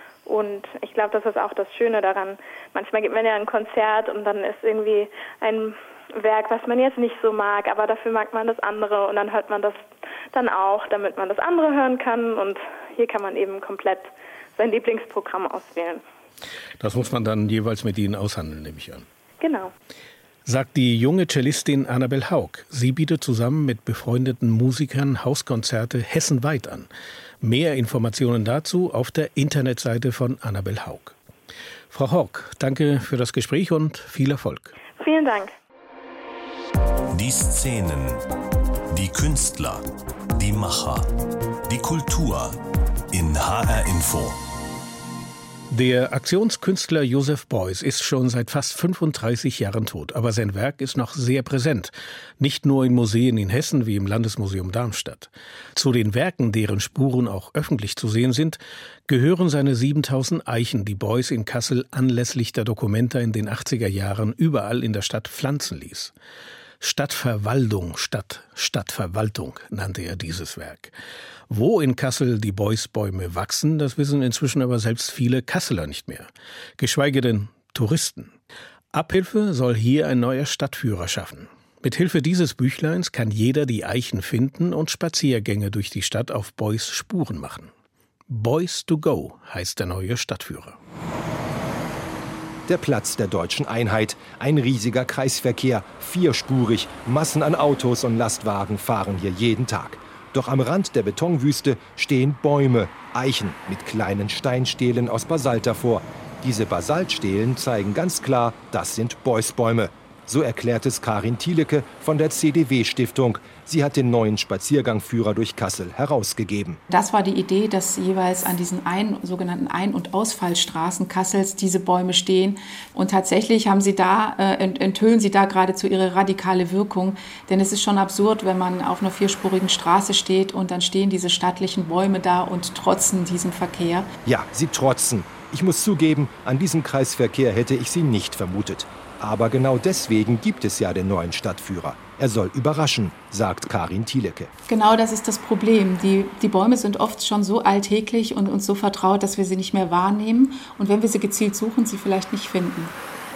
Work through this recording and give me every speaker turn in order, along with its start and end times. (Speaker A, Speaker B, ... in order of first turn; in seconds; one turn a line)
Speaker A: 0.2-16.0
Speaker B: 16.8-19.1
Speaker A: 19.4-19.7
Speaker B: 20.4-26.9
Speaker B: 27.4-31.1
Speaker B: 31.9-34.7
Speaker A: 35.0-35.5
Speaker C: 37.1-38.2
Speaker C: 38.9-42.6
Speaker C: 43.1-44.4
Speaker B: 45.7-66.1
Speaker B: 66.8-70.9
Speaker B: 71.5-78.3
Speaker B: 78.9-87.7
Speaker B: 88.3-90.8
Speaker D: 92.7-116.8
Speaker E: 116.9-134.1
Speaker D: 134.2-144.5
Speaker E: 144.7-152.9